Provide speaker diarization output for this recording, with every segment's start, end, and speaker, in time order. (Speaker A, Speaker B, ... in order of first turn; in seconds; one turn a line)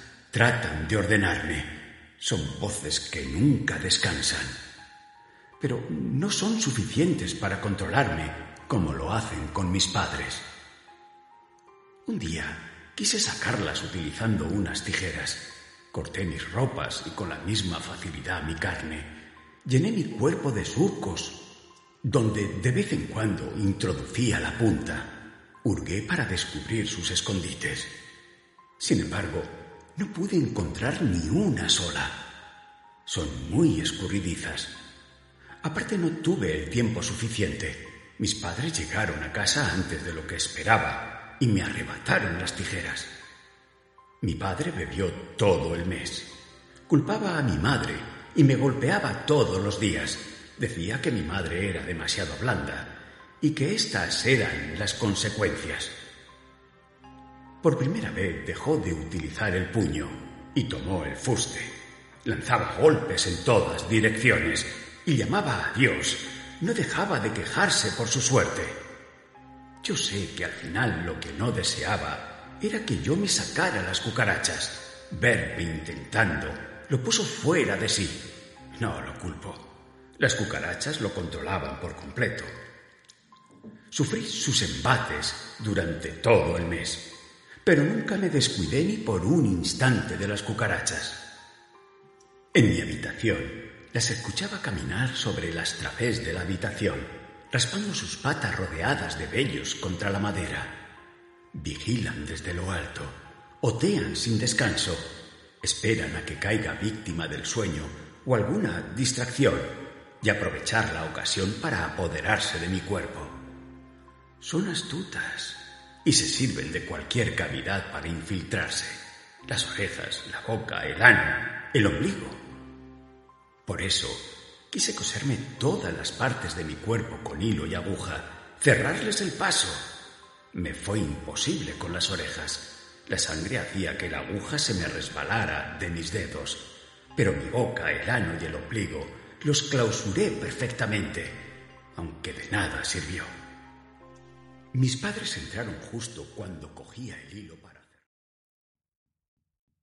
Speaker A: 0.3-4.6
Speaker A: 5.6-10.5
Speaker A: 12.1-19.1
Speaker A: 19.6-21.4
Speaker A: 22.0-25.1
Speaker A: 25.6-27.9
Speaker A: 28.8-32.2
Speaker A: 33.0-34.7
Speaker A: 35.6-43.1
Speaker A: 44.2-46.3
Speaker A: 46.9-55.9
Speaker A: 57.6-61.7
Speaker A: 62.2-68.8
Speaker A: 69.8-82.5
Speaker A: 83.9-87.1
Speaker A: 87.6-91.2
Speaker A: 92.5-100.8
Speaker A: 101.5-105.1
Speaker A: 105.6-113.4
Speaker A: 114.4-122.4
Speaker A: 123.7-129.9
Speaker A: 130.5-136.6
Speaker A: 137.1-141.4
Speaker A: 141.9-143.3
Speaker A: 144.7-148.0